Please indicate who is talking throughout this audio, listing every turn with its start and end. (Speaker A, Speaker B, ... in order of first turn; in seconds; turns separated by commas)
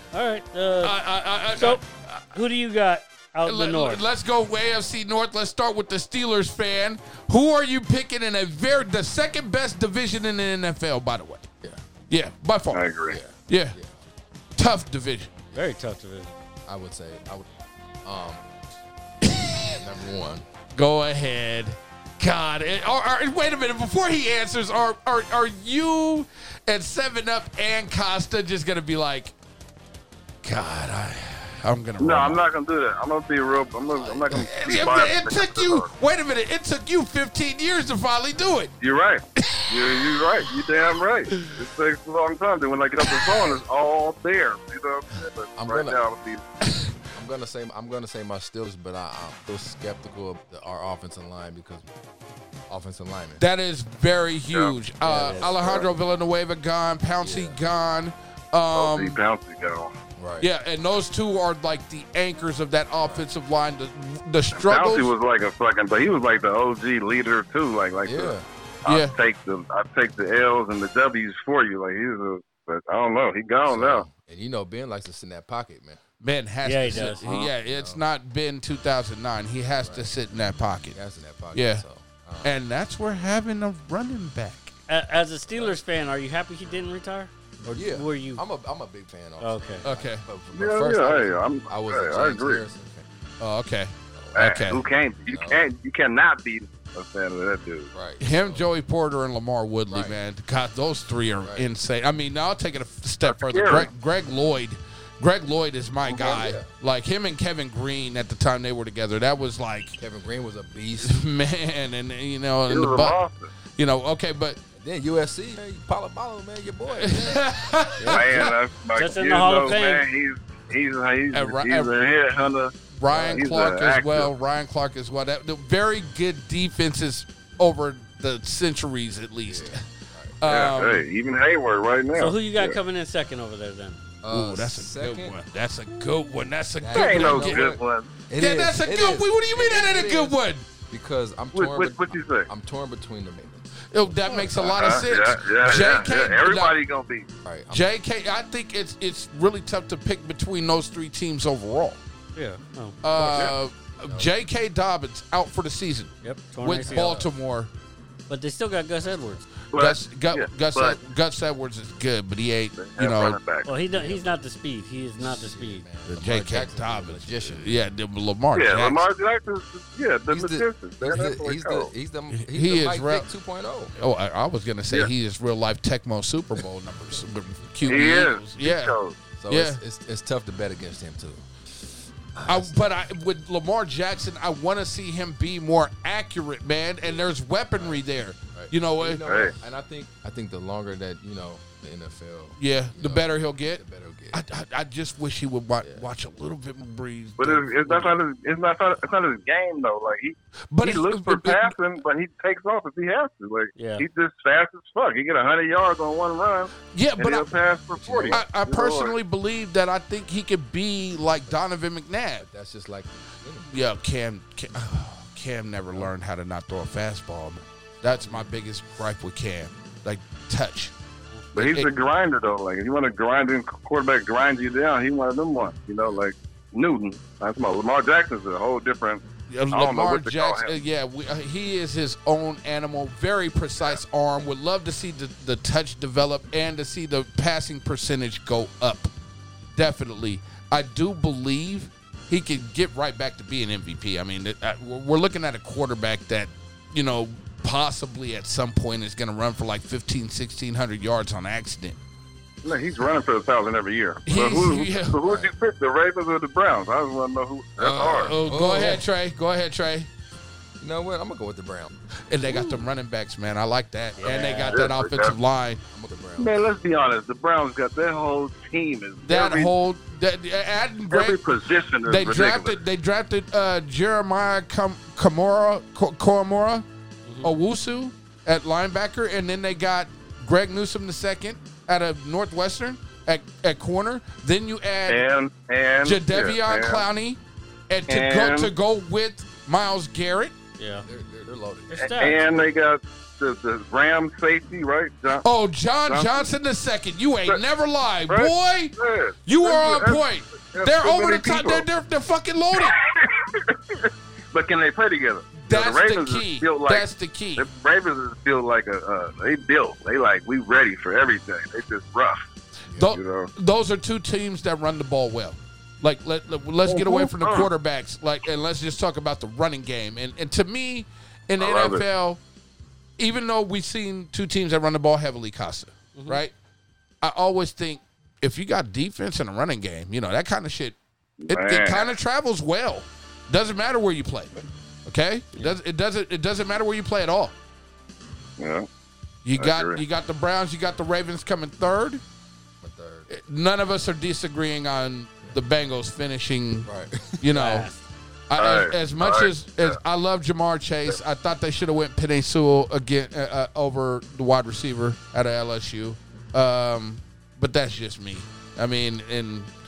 Speaker A: 0.1-1.0, Speaker B: 0.8-2.2, Speaker A: 1.5-1.8, Speaker A: 2.3-4.0, Speaker B: 3.4-11.5, Speaker B: 12.1-12.8, Speaker C: 12.7-13.2, Speaker D: 13.1-14.0, Speaker B: 13.5-13.8, Speaker B: 14.6-15.3, Speaker A: 15.5-16.3, Speaker D: 16.7-17.5, Speaker D: 18.0-18.4, Speaker B: 19.2-19.8, Speaker D: 19.7-20.5, Speaker B: 20.7-29.3, Speaker B: 30.4-32.4, Speaker C: 32.0-35.9, Speaker B: 34.3-38.7, Speaker C: 38.8-46.4, Speaker B: 39.4-40.0, Speaker D: 45.6-46.0, Speaker B: 46.7-46.9, Speaker D: 47.1-51.9, Speaker D: 52.7-53.4, Speaker B: 53.4-59.2, Speaker C: 54.5-54.8, Speaker D: 55.0-55.5, Speaker A: 55.1-55.4, Speaker C: 55.3-55.9, Speaker D: 57.2-57.6, Speaker C: 58.7-59.9, Speaker D: 60.2-60.5, Speaker B: 60.4-65.1, Speaker C: 64.5-74.1, Speaker D: 68.0-68.5, Speaker B: 68.9-69.1, Speaker D: 73.7-76.0, Speaker B: 76.2-81.0, Speaker A: 76.6-77.2, Speaker C: 77.2-77.5, Speaker D: 77.7-78.0, Speaker D: 79.8-80.1, Speaker D: 80.9-82.5, Speaker B: 81.5-81.8, Speaker B: 82.4-84.7, Speaker A: 84.9-88.4, Speaker D: 85.5-85.8, Speaker D: 87.7-93.1, Speaker A: 89.4-89.8, Speaker B: 89.8-90.2, Speaker C: 90.5-92.6, Speaker B: 93.4-94.8, Speaker D: 94.1-94.7, Speaker C: 94.3-97.9, Speaker D: 95.3-95.6, Speaker D: 97.9-98.7, Speaker B: 98.2-110.0, Speaker D: 99.9-100.2, Speaker D: 101.4-101.7, Speaker C: 103.2-103.9, Speaker D: 106.1-106.7, Speaker D: 110.0-111.2, Speaker B: 111.0-113.2, Speaker C: 112.7-113.5, Speaker B: 113.8-114.6, Speaker D: 114.8-117.5, Speaker B: 116.9-118.5, Speaker A: 118.0-118.3, Speaker C: 118.1-122.7, Speaker A: 119.0-120.1, Speaker B: 121.3-121.9, Speaker B: 123.0-129.8, Speaker D: 123.1-123.7, Speaker C: 123.3-124.3, Speaker D: 129.4-130.4, Speaker B: 130.4-131.1, Speaker C: 130.4-132.8, Speaker A: 132.2-134.0, Speaker D: 134.2-135.4, Speaker B: 134.3-137.7, Speaker D: 136.8-144.9, Speaker C: 136.9-138.1, Speaker B: 138.4-140.7, Speaker C: 141.6-142.5, Speaker B: 143.9-146.8, Speaker C: 144.5-147.3, Speaker D: 147.4-147.8, Speaker B: 147.7-152.0, Speaker A: 152.3-153.0, Speaker B: 153.0-157.7, Speaker C: 153.2-153.5, Speaker D: 154.0-154.3, Speaker A: 156.2-157.2, Speaker D: 156.8-157.3, Speaker A: 158.3-159.4, Speaker C: 159.7-161.0, Speaker B: 159.8-163.4, Speaker C: 162.8-163.7, Speaker A: 163.7-165.9, Speaker D: 163.9-164.4, Speaker D: 165.2-167.8, Speaker B: 166.1-169.0, Speaker C: 168.5-171.9, Speaker D: 170.3-173.9, Speaker B: 172.3-173.3, Speaker B: 174.0-178.9, Speaker C: 177.9-179.2, Speaker D: 179.4-181.5, Speaker B: 179.5-179.8, Speaker D: 182.3-182.9, Speaker B: 182.5-189.2, Speaker D: 187.7-194.4, Speaker C: 189.2-189.5, Speaker B: 192.6-198.1, Speaker D: 195.8-196.1, Speaker C: 197.4-209.2, Speaker B: 200.7-201.8, Speaker A: 203.8-204.1, Speaker B: 206.9-207.5, Speaker D: 207.9-208.4, Speaker B: 208.3-212.5, Speaker D: 212.4-213.7, Speaker B: 213.7-220.9, Speaker D: 218.0-218.5, Speaker C: 221.5-230.8, Speaker B: 221.6-221.9, Speaker B: 229.5-239.1, Speaker B: 239.8-252.0, Speaker C: 252.6-258.4, Speaker B: 254.3-255.5, Speaker B: 257.8-260.1, Speaker D: 258.4-259.0, Speaker D: 260.8-261.9, Speaker B: 262.3-265.8, Speaker A: 264.2-264.9, Speaker C: 264.2-265.4, Speaker D: 265.9-266.6, Speaker C: 266.4-269.7, Speaker B: 269.2-271.4, Speaker C: 271.1-272.8, Speaker B: 272.1-276.9, Speaker B: 277.4-285.2, Speaker C: 285.1-287.1, Speaker B: 286.1-290.5, Speaker C: 288.1-288.7, Speaker A: 290.8-291.1, Speaker D: 291.0-292.1, Speaker A: 291.9-292.5, Speaker C: 292.0-295.5, Speaker B: 295.4-303.0, Speaker C: 296.1-296.5, Speaker C: 298.3-301.9, Speaker C: 302.8-312.4, Speaker B: 305.6-307.7, Speaker B: 312.9-322.4, Speaker C: 313.1-313.5, Speaker C: 316.9-317.7, Speaker C: 321.6-322.0, Speaker B: 323.2-326.5, Speaker A: 326.2-326.4, Speaker B: 327.2-331.0, Speaker C: 331.4-332.1, Speaker B: 331.5-334.5, Speaker B: 335.1-337.5, Speaker C: 338.6-338.9, Speaker B: 339.4-342.2, Speaker C: 339.6-340.0, Speaker D: 342.8-343.3, Speaker B: 343.3-346.9, Speaker D: 346.9-347.4, Speaker B: 347.4-347.9, Speaker A: 347.5-348.0, Speaker B: 348.5-359.7, Speaker C: 348.6-350.0